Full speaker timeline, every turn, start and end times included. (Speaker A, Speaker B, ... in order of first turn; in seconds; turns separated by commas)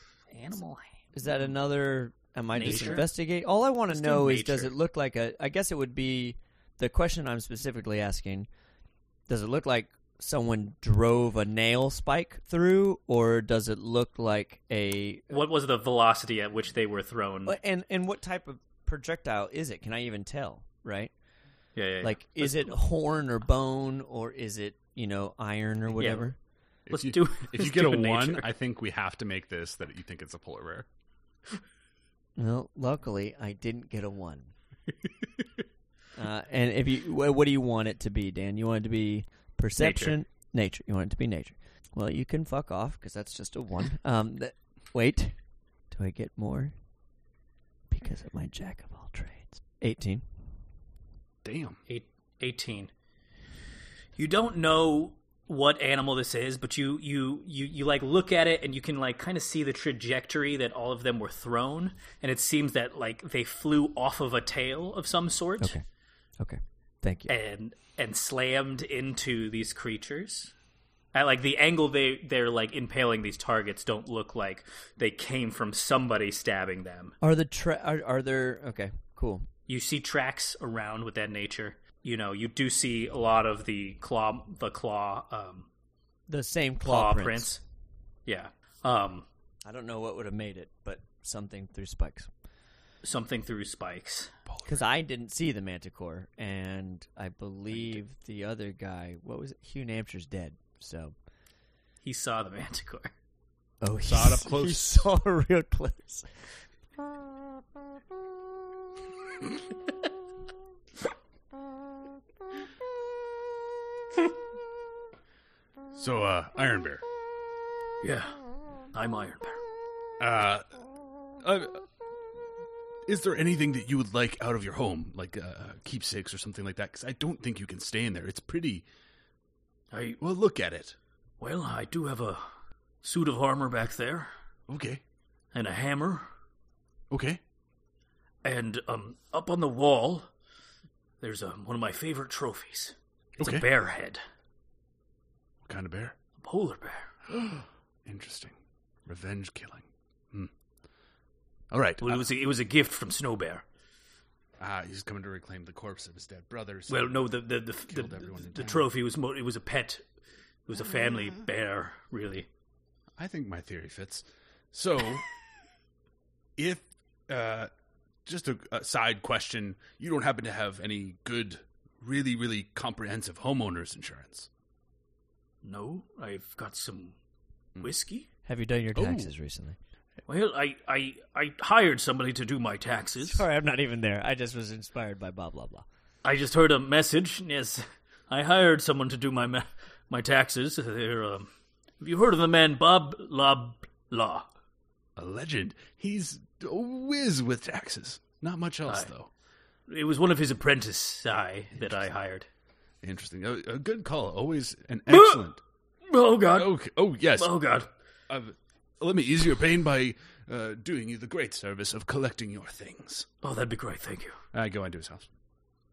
Speaker A: 0.3-1.5, Speaker B: 1.1-8.5, Speaker A: 2.5-3.1, Speaker C: 2.7-3.0, Speaker A: 3.9-4.7, Speaker B: 9.3-15.4, Speaker A: 15.3-17.6, Speaker B: 17.5-21.1, Speaker A: 21.8-22.8, Speaker B: 22.0-26.4, Speaker A: 26.0-26.3, Speaker C: 26.9-30.9, Speaker A: 26.9-28.5, Speaker B: 32.4-34.5, Speaker B: 36.2-45.4, Speaker A: 39.8-40.2, Speaker B: 45.9-46.7, Speaker B: 47.9-50.2, Speaker C: 51.4-51.8, Speaker A: 51.9-52.9, Speaker A: 54.2-65.8, Speaker B: 66.4-67.3, Speaker A: 67.3-70.5, Speaker A: 71.1-77.2, Speaker B: 77.2-79.5, Speaker A: 79.7-85.7, Speaker B: 86.3-87.5, Speaker A: 86.8-87.6, Speaker A: 88.3-89.3, Speaker B: 89.7-92.3, Speaker A: 93.0-94.3, Speaker C: 94.5-94.8, Speaker B: 94.7-101.2, Speaker A: 102.0-103.1, Speaker B: 103.8-106.3, Speaker C: 104.0-105.0, Speaker C: 115.9-117.0, Speaker A: 118.0-118.4, Speaker A: 118.9-119.6, Speaker C: 120.2-120.7, Speaker C: 121.4-121.8, Speaker C: 123.1-128.8, Speaker A: 129.9-130.2, Speaker C: 130.2-131.0, Speaker A: 131.4-132.4, Speaker A: 133.0-134.3, Speaker C: 134.7-135.0, Speaker A: 135.5-136.3, Speaker C: 137.1-137.4, Speaker A: 138.4-140.3, Speaker A: 141.2-144.2, Speaker C: 143.4-143.7, Speaker C: 145.7-146.2, Speaker A: 146.4-147.1, Speaker C: 147.3-148.6, Speaker C: 149.1-150.5, Speaker C: 151.7-152.2, Speaker A: 152.0-153.7, Speaker C: 154.6-157.2, Speaker A: 156.9-160.0, Speaker C: 157.9-158.9, Speaker A: 160.7-162.5, Speaker C: 163.2-165.3, Speaker C: 166.6-167.7, Speaker C: 168.3-174.5, Speaker A: 175.6-177.2, Speaker A: 177.8-178.3, Speaker B: 178.5-179.8, Speaker C: 178.9-179.3, Speaker A: 180.3-183.4, Speaker B: 183.2-185.8, Speaker A: 186.2-194.5, Speaker C: 195.2-199.3, Speaker A: 199.9-202.5, Speaker C: 203.0-205.6, Speaker A: 205.1-205.4, Speaker A: 206.1-206.7, Speaker C: 206.6-207.5, Speaker A: 207.4-207.9, Speaker C: 208.3-213.3, Speaker A: 213.4-214.4, Speaker C: 214.5-215.3